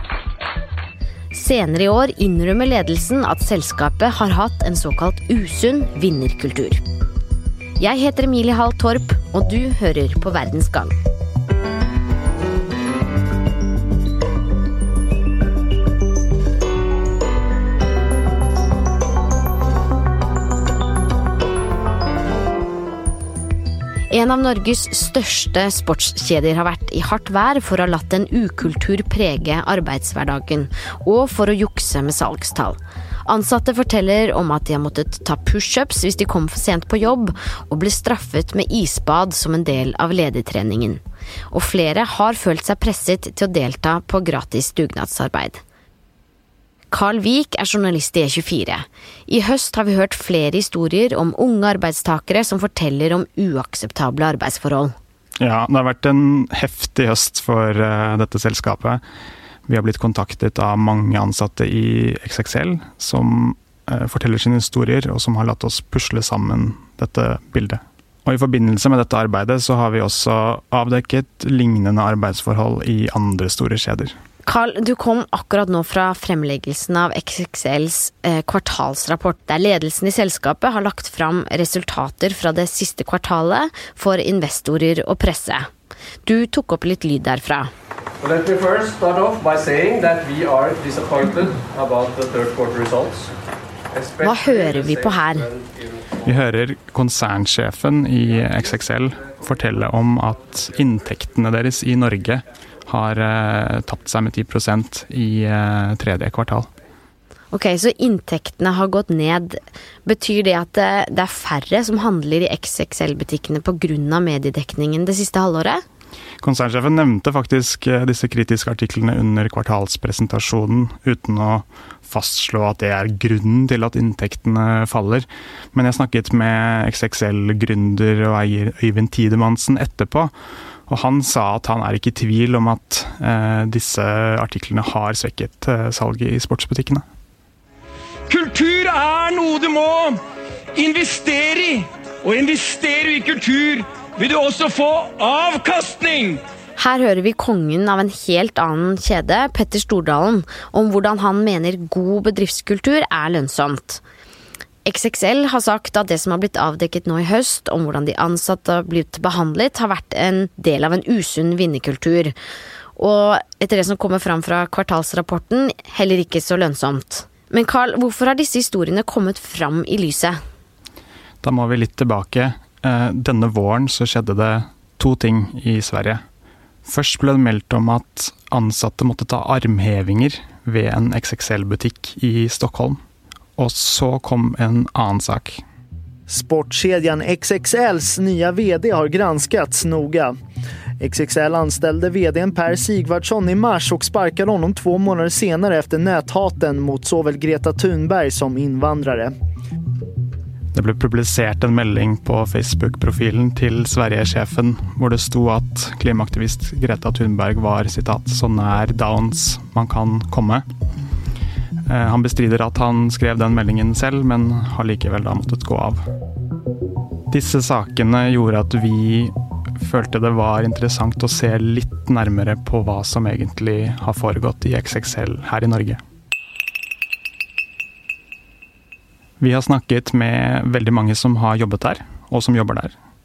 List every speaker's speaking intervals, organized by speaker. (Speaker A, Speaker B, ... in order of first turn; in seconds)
Speaker A: 1.3-6.8, 7.8-10.9, 24.1-41.0, 41.5-45.6, 46.9-54.9, 74.5-85.7, 86.2-87.7, 94.2-95.5, 107.5-115.8, 146.8-154.0, 154.8-162.3, 163.0-170.4
Speaker B: 55.4-59.0, 59.7-74.1, 96.2-106.7, 116.4-130.3, 130.9-137.0, 171.4-176.2, 176.8-183.0, 183.6-185.6, 200.7-210.6, 211.9-216.0, 217.3-226.0, 229.4-232.9
Speaker C: 88.2-93.3, 93.9-95.7
Speaker D: 138.3-140.2, 140.7-146.4
Speaker E: 186.3-190.3, 191.0-199.3